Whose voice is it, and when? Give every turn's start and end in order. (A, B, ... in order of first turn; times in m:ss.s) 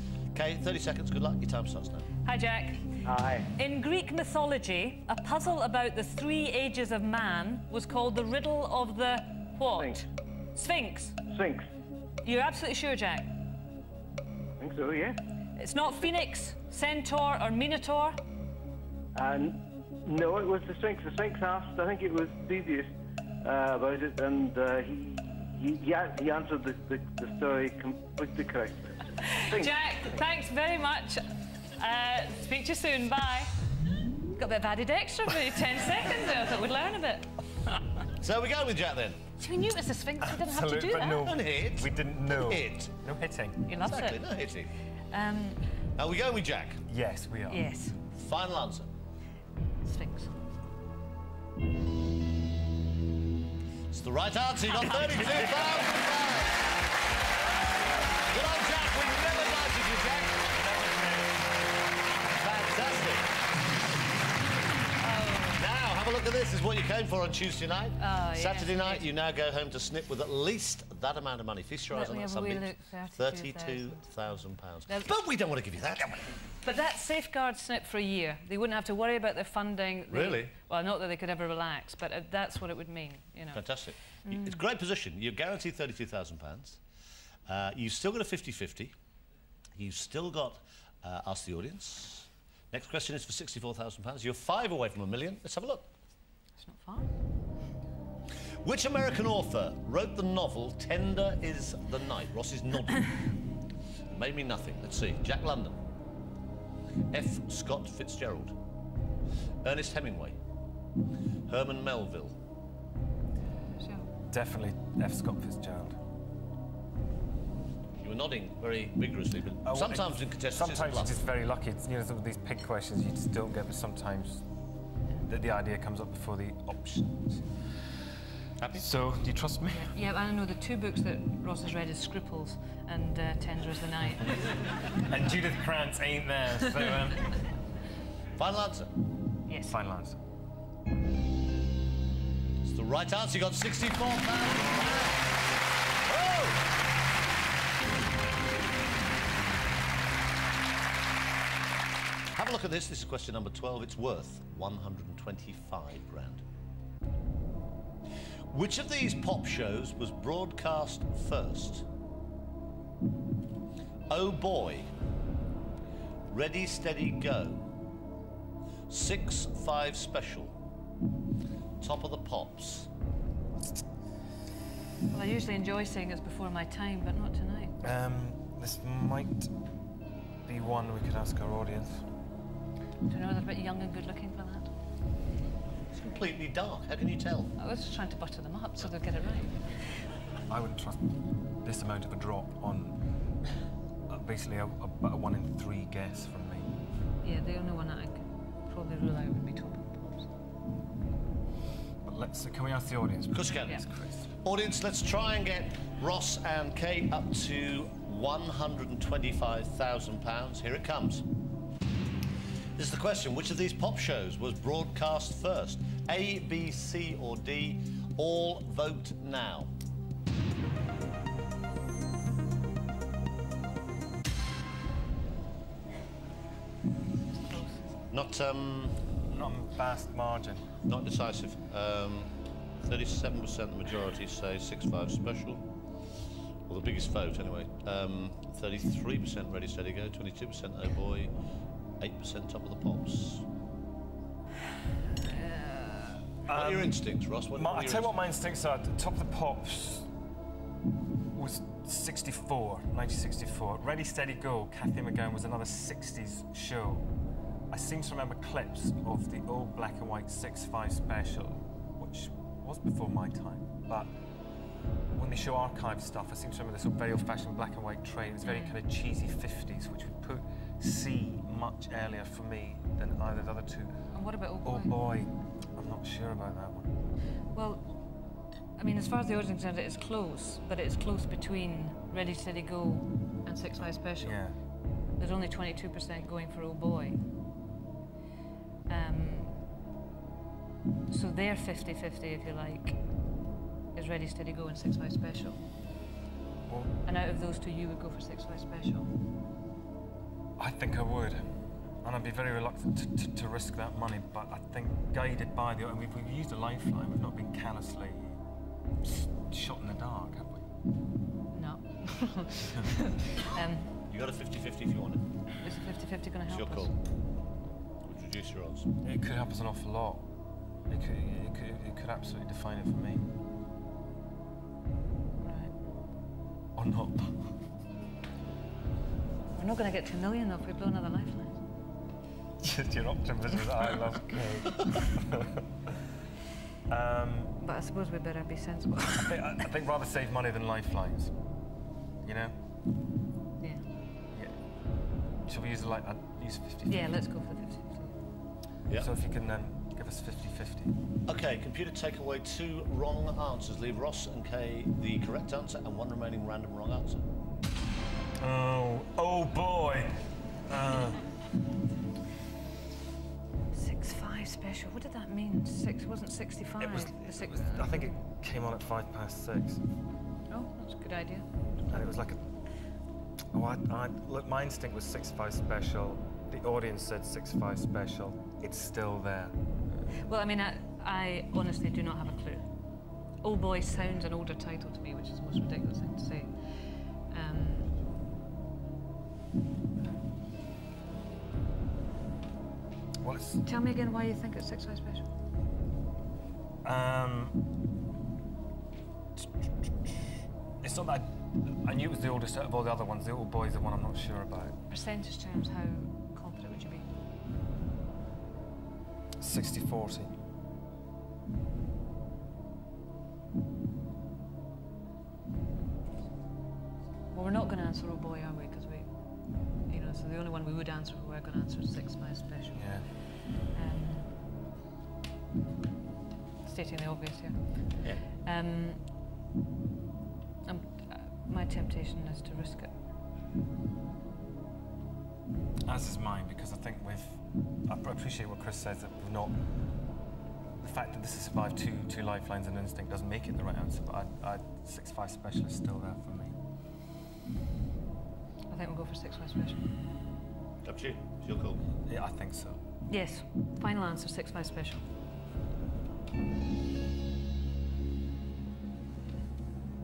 0:00.3-0:02.1 A
0:02.2-0:02.9 B
0:03.0-0:03.5 C
0:03.5-0:11.2 B
0:11.3-0:11.7 C
0:12.2-0:13.3 B
0:14.6-0:15.2 C
0:15.6-0:18.2 B
0:19.2-0:22.9 C
0:23.4-0:29.8 C
0:29.2-0:33.6 B
0:34.4-0:37.3 B
0:38.1-0:39.2 A
0:39.4-0:41.3 B
0:40.2-0:43.6 D
0:41.2-0:42.9 A
0:43.7-0:44.2 B
0:43.8-0:44.7 A
0:45.1-0:45.6 B
0:46.0-0:46.8 A
0:46.9-0:47.7 D
0:47.5-0:48.0 B
0:48.1-0:48.9 A
0:49.8-0:50.4 B
0:53.9-0:56.7 A
0:58.3-1:00.4 A
1:00.7-1:01.3 D
1:02.4-1:03.3 A
1:05.0-1:05.7 B
1:05.6-1:16.4 A
1:08.0-1:09.1 B
1:11.9-1:14.1 B
1:16.6-1:24.6 B
1:20.1-1:20.5 A
1:23.5-1:26.8 A
1:27.5-1:28.9 A
1:29.8-1:35.9 A
1:36.6-1:37.1 B
1:38.6-1:43.2 A
1:44.1-1:45.8 A
1:47.1-1:48.6 A
1:49.6-1:50.4 A
1:51.5-1:52.4 A
1:53.8-1:54.1 B
1:54.2-1:56.0 D
1:58.0-2:01.2 A
1:59.6-2:04.4 D
2:05.2-2:07.6 D
2:08.6-2:08.9 A
2:08.7-2:09.9 D
2:09.7-2:14.7 B
2:15.1-2:17.4 D
2:18.4-2:18.9 A
2:19.5-2:19.8 B
2:19.7-2:20.2 D
2:22.6-2:25.3 A
2:26.0-2:26.7 A
2:32.4-2:36.4 A
2:38.5-2:41.9 A
2:44.1-2:44.9 A
2:46.3-2:47.6 A
2:48.9-2:50.6 A
2:51.8-2:52.9 A
2:55.1-2:57.8 B
2:57.8-2:59.5 D
3:00.4-3:02.1 D
3:03.1-3:04.7 B
3:05.9-3:07.5 A
3:07.6-3:10.0 B
3:10.5-3:11.1 D
3:11.6-3:13.0 D
3:14.1-3:16.7 D
3:17.2-3:20.3 B
3:22.0-3:24.3 D
3:23.3-3:23.8 A
3:24.4-3:31.2 A
3:32.8-3:39.7 A
3:48.1-3:49.0 A
3:49.3-3:50.7 D
3:50.8-3:55.7 A
3:56.7-4:01.3 A
4:02.0-4:03.4 A
4:05.2-4:06.2 B
4:06.4-4:07.0 D
4:06.5-4:08.2 A
4:07.5-4:10.1 D
4:11.3-4:17.1 D
4:17.7-4:24.1 D
4:25.2-4:34.1 D
4:28.4-4:28.8 B
4:34.1-4:35.0 B
4:34.6-4:36.9 D
4:37.5-4:37.9 B
4:38.8-4:44.5 B
4:44.2-4:44.6 D
4:45.2-4:47.2 B
4:48.9-4:49.6 B
4:51.1-4:53.0 B
4:53.9-4:55.6 B
4:56.7-4:56.9 D
4:57.0-4:59.1 B
5:00.6-5:01.5 D
5:02.0-5:08.4 D
5:09.0-5:10.6 D
5:11.5-5:13.9 B
5:14.1-5:15.2 A
5:15.6-5:16.9 B
5:16.5-5:16.9 A
5:18.0-5:18.9 A
5:19.0-5:20.3 D
5:20.9-5:23.3 D
5:25.4-5:25.7 B
5:26.8-5:27.4 D
5:29.5-5:31.6 B
5:32.6-5:35.5 D
5:36.9-5:37.6 D
5:37.6-5:39.3 B
5:39.1-5:41.3 D
5:42.2-5:42.6 D
5:44.3-5:44.6 D
5:45.4-5:47.2 D
5:46.9-5:48.2 B
5:49.0-5:50.9 D
5:51.3-5:57.2 A
5:58.4-6:01.2 D
6:03.7-6:08.1 B
6:06.8-6:09.8 D
6:10.5-6:11.4 B
6:11.9-6:12.4 D
6:13.5-6:20.1 D
6:20.2-6:22.7 B
6:23.4-6:27.9 B
6:33.2-6:33.6 D
6:33.6-6:35.3 B
6:36.8-6:37.6 D
6:39.4-6:40.1 D
6:40.8-6:44.8 D
6:44.9-6:47.2 B
6:49.4-6:50.4 D
6:57.3-7:04.4 B
7:02.7-7:03.1 D
7:06.6-7:09.0 B
7:10.6-7:12.9 B
7:15.8-7:19.6 D
7:20.8-7:26.6 D
7:28.7-7:29.9 B
7:30.8-7:31.8 A
7:32.1-7:32.8 D
7:33.1-7:35.1 B